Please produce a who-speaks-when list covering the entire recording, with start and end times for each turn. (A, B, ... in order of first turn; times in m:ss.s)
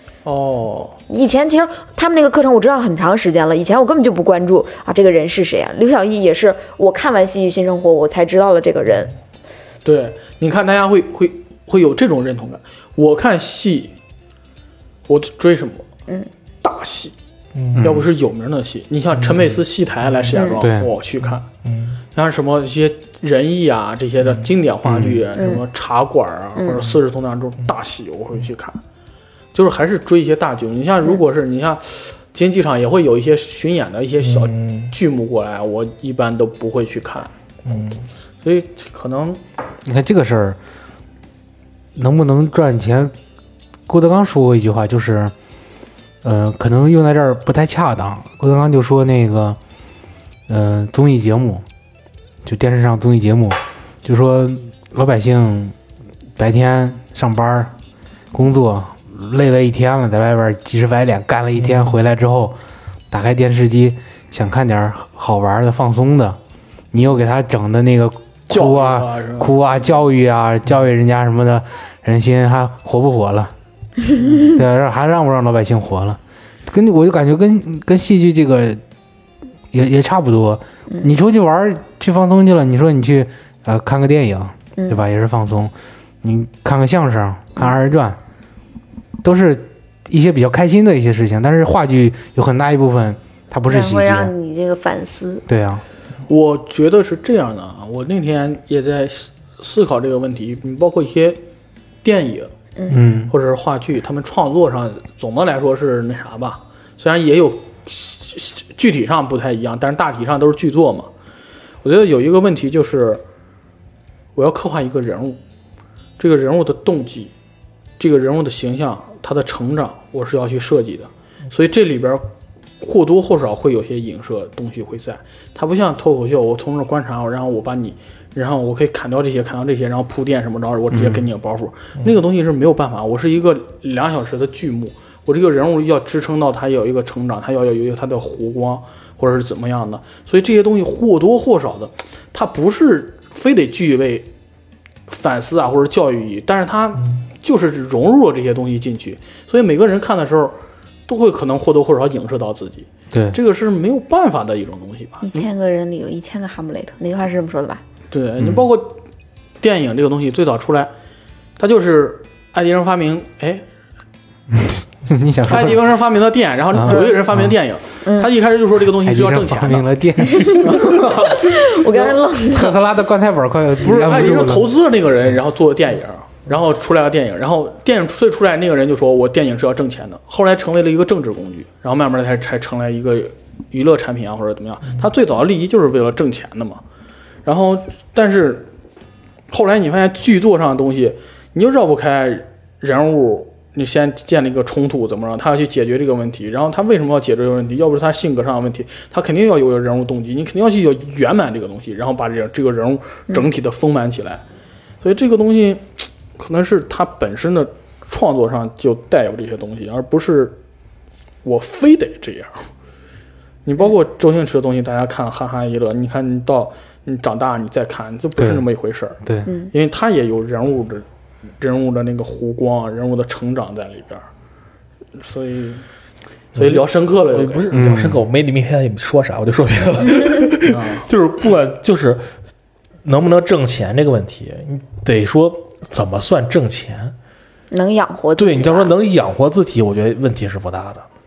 0:00.2-0:01.0 A
0:01.1-0:09.1 B
0:09.8-0:14.0 A
0:15.1-0:15.9 A
0:16.6-0:17.2 A
0:17.6-0:17.9 C
0:17.8-0:18.1 D
0:17.8-0:21.5 A
0:19.2-0:19.6 C
0:20.3-0:20.6 B
0:20.6-0:20.9 D
0:21.6-0:22.0 C
0:22.1-0:28.8 A
0:24.9-0:25.2 D
0:25.4-0:25.6 B
0:26.6-0:26.9 B
0:29.5-0:37.3 A
0:34.2-0:34.9 C
0:37.6-0:38.0 C
0:38.4-0:39.4 A
0:39.8-0:40.6 D
0:42.0-0:43.1 D
0:43.9-0:45.3 D
0:46.2-0:49.6 D
0:50.5-0:51.6 D
0:52.4-0:55.8 D
0:56.4-0:57.7 D
0:58.3-1:02.6 D
1:03.1-1:06.4 D
1:06.9-1:13.5 D
1:08.5-1:09.9 A
1:14.4-1:18.8 D
1:19.7-1:28.2 D
1:20.9-1:21.2 B
1:24.8-1:25.0 B
1:29.2-1:34.3 D
1:33.7-1:35.5 B
1:35.5-1:35.8 D
1:36.3-1:41.4 A
1:42.0-1:42.5 A
1:42.9-1:43.3 D
1:43.3-1:51.1 A
1:51.8-1:53.2 A
1:54.4-1:55.4 A
1:56.2-1:57.3 A
1:58.0-2:24.3 A
2:25.1-2:35.4 A
2:33.1-2:33.4 D
2:35.2-2:37.8 B
2:38.1-2:39.0 A
2:39.6-2:40.9 A
2:41.6-2:43.6 A
2:44.5-2:45.8 D
2:45.4-2:52.2 A
2:46.8-2:47.5 D
2:46.9-2:47.2 B
2:48.0-2:48.3 B
2:49.0-2:51.0 D
2:50.3-2:50.7 B
2:51.4-2:52.8 B
2:52.5-2:54.7 D
2:53.8-3:06.8 A
3:07.4-3:08.7 A
3:09.5-3:24.4 A
3:25.0-3:30.6 A
3:31.4-3:32.7 A
3:33.6-3:41.1 A
3:38.4-3:38.6 D
3:39.2-3:39.5 D
3:39.5-3:39.7 B
3:41.6-3:44.2 A
3:45.1-3:45.8 A
3:46.6-3:47.8 A
3:46.6-3:52.2 C
3:47.7-3:48.2 D
3:50.6-3:51.1 A
3:53.0-3:57.2 C
3:57.7-3:58.9 B
3:58.4-4:01.0 C